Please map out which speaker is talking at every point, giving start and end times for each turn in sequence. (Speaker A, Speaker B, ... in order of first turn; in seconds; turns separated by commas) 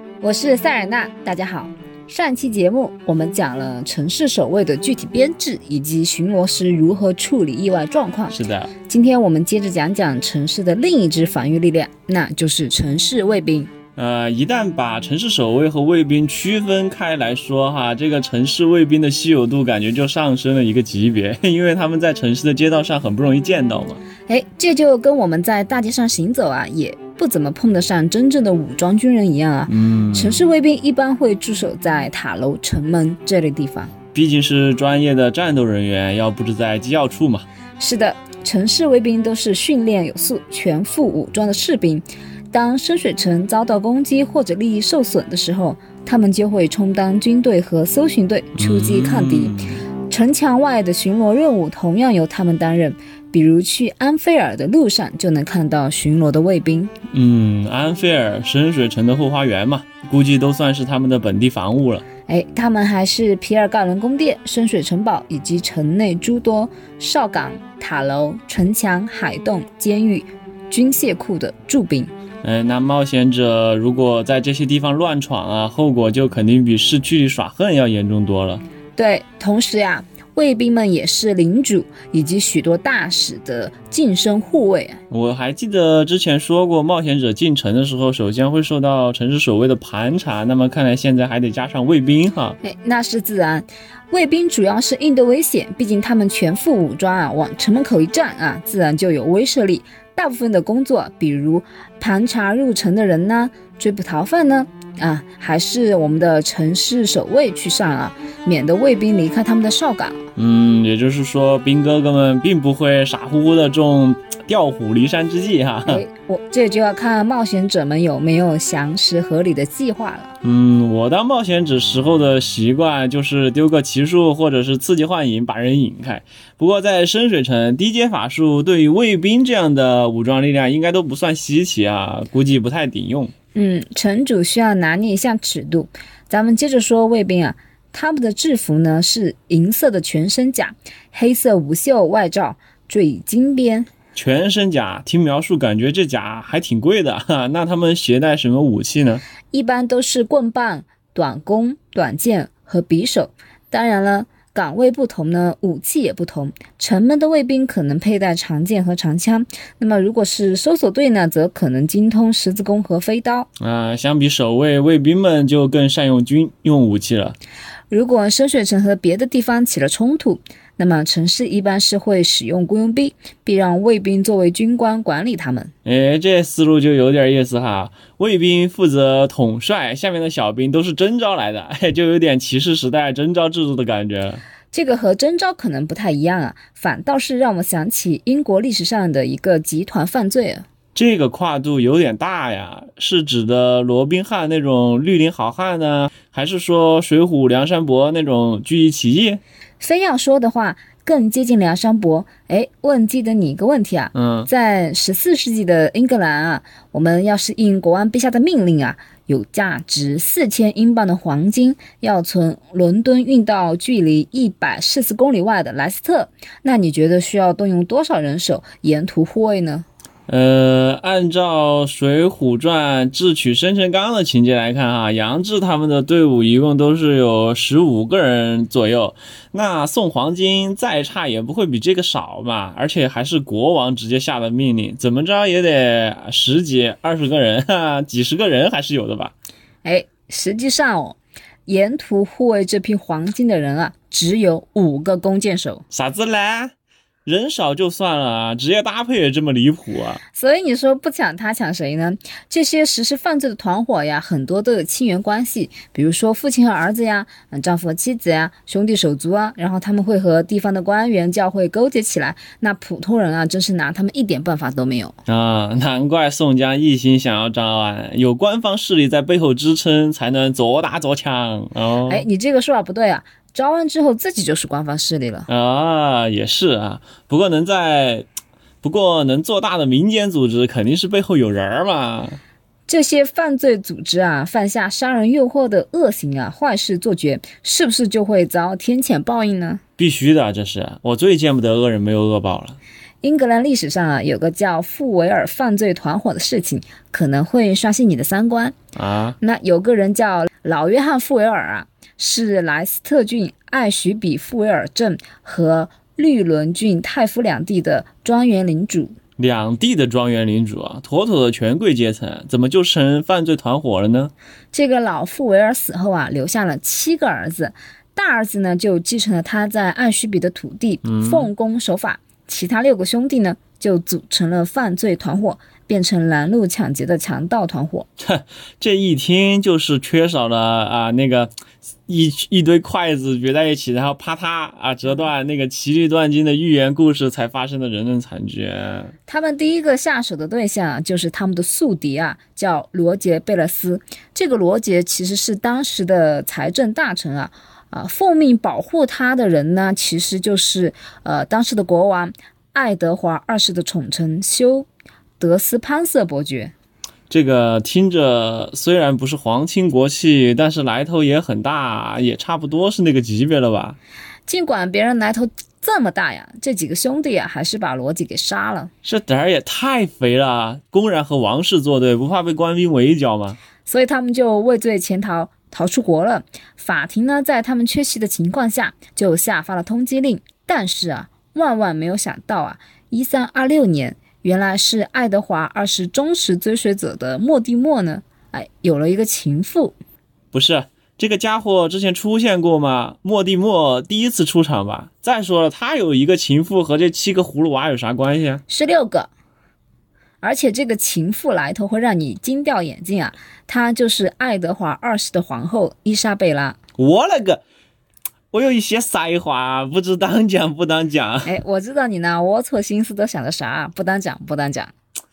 Speaker A: 0.2-13.7, Speaker B: 8.3-8.7, Speaker B: 14.0-24.0, Speaker A: 24.3-33.9, Speaker B: 29.7-30.4, Speaker B: 34.1-37.5, Speaker A: 37.8-56.9, Speaker B: 48.5-49.8, Speaker B: 57.1-62.0, Speaker A: 62.3-72.1, Speaker B: 72.4-78.6, Speaker A: 79.0-85.0, Speaker B: 85.1-92.6, Speaker A: 92.6-110.2, Speaker B: 110.4-116.0, Speaker A: 115.9-120.3, Speaker B: 120.4-133.3, Speaker A: 133.6-143.9, Speaker B: 144.2-149.2, Speaker A: 149.5-163.5, Speaker B: 163.6-167.4, Speaker A: 167.9-175.7, Speaker B: 175.8-184.4, Speaker A: 184.7-190.7, Speaker B: 190.9-199.4, Speaker A: 199.8-219.9, Speaker B: 204.1-204.5, Speaker B: 220.3-239.3, Speaker A: 239.8-245.8, Speaker B: 245.9-246.7, Speaker B: 247.2-250.2, Speaker A: 250.3-265.1, Speaker B: 265.2-272.2, Speaker A: 272.1-275.5, Speaker B: 275.5-278.2, Speaker B: 278.8-282.4, Speaker A: 282.9-289.8, Speaker B: 290.0-292.8, Speaker A: 293.2-298.8, Speaker B: 298.9-299.4, Speaker A: 299.4-309.2, Speaker B: 309.4-314.3, Speaker A: 314.7-328.1, Speaker B: 321.0-321.5, Speaker B: 328.2-331.5, Speaker B: 332.1-339.1, Speaker A: 339.3-354.9, Speaker A: 355.4-356.7, Speaker B: 357.3-364.0, Speaker A: 364.5-368.9, Speaker B: 369.0-373.6, Speaker A: 373.9-389.9, Speaker B: 390.5-398.6, Speaker A: 398.7-399.3, Speaker A: 400.4-406.8, Speaker B: 407.0-407.6, Speaker B: 408.5-411.6, Speaker A: 411.4-414.9